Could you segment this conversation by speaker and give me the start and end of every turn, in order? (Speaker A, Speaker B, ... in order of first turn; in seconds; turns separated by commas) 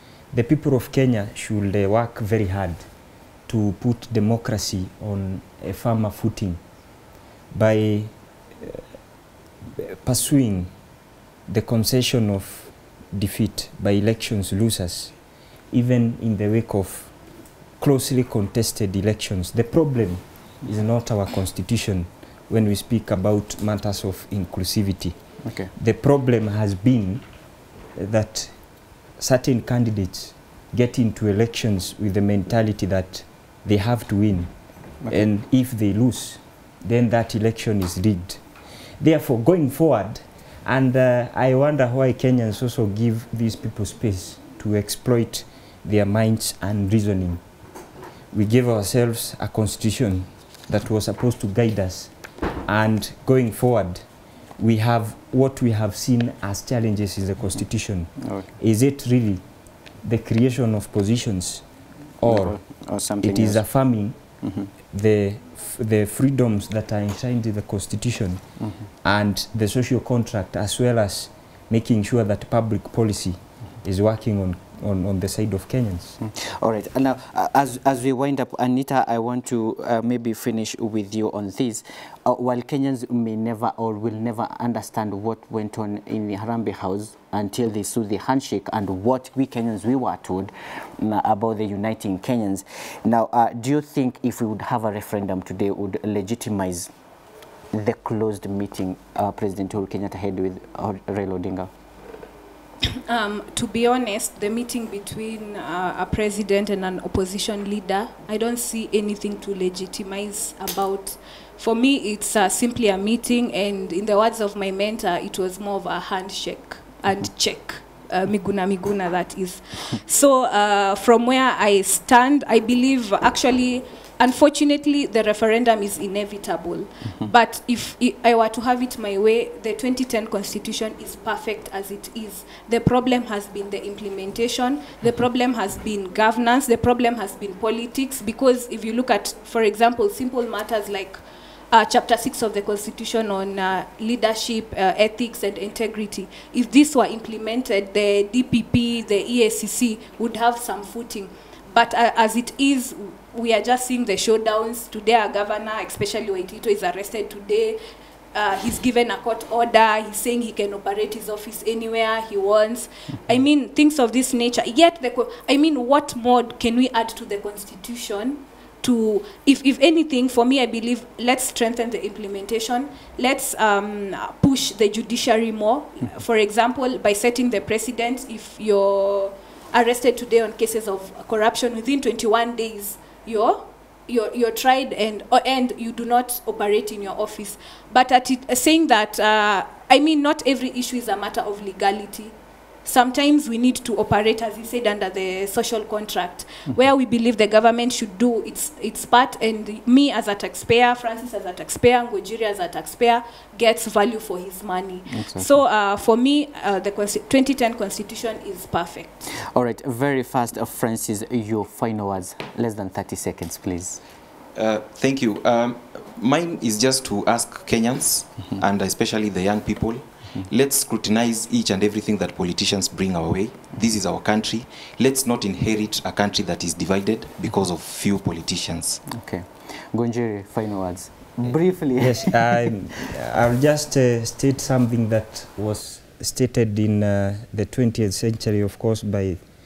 Speaker A: 0.3-2.8, Speaker A: 3.5-6.6, Speaker A: 7.5-8.8, Speaker A: 9.8-10.7, Speaker A: 11.5-15.1, Speaker A: 15.7-17.1, Speaker A: 17.8-25.2, Speaker B: 25.4-25.7, Speaker A: 25.8-27.2, Speaker A: 27.9-28.6, Speaker A: 29.2-34.5, Speaker A: 35.1-38.4, Speaker A: 39.0-47.4, Speaker A: 48.3-52.1, Speaker A: 52.7-54.0, Speaker A: 54.6-59.4, Speaker A: 60.0-61.6, Speaker A: 62.2-62.6, Speaker B: 62.2-63.6, Speaker A: 63.2-64.2, Speaker B: 64.4-64.7, Speaker A: 64.9-68.4, Speaker A: 69.0-76.2, Speaker B: 76.2-96.9, Speaker B: 97.7-101.7, Speaker C: 103.0-157.8, Speaker C: 158.3-192.3, Speaker C: 192.8-209.3, Speaker B: 205.2-205.5, Speaker B: 209.5-214.0, Speaker D: 214.6-229.0, Speaker B: 229.1-232.7, Speaker A: 231.9-239.4